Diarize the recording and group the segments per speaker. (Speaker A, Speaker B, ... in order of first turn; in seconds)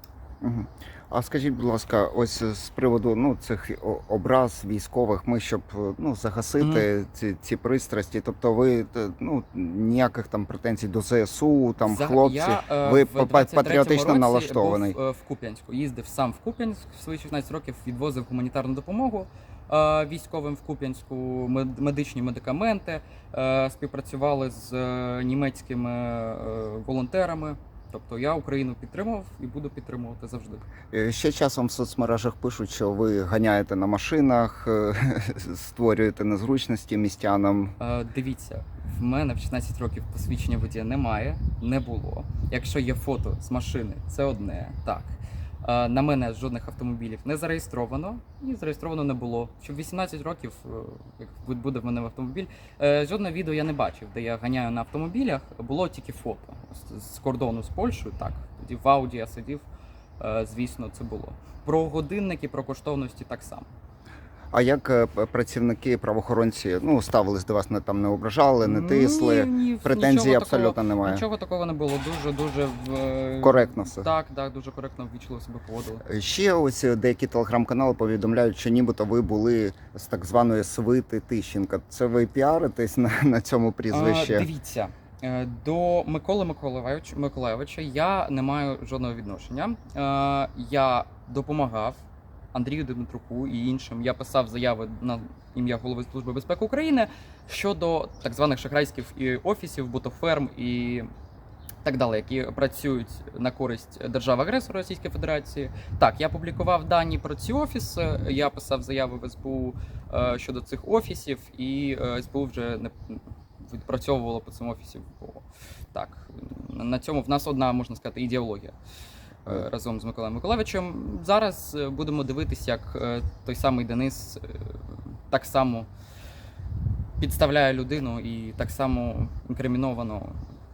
Speaker A: 0.4-15.0, 30.9-37.8, 64.5-71.2, 73.4-74.1, 76.0-84.5
Speaker B: 6.6-6.9, 11.8-30.7, 37.8-59.6, 60.2-63.7, 68.6-76.0, 83.9-92.0, 92.5-101.1, 101.8-118.8, 119.4-125.9, 127.2-130.4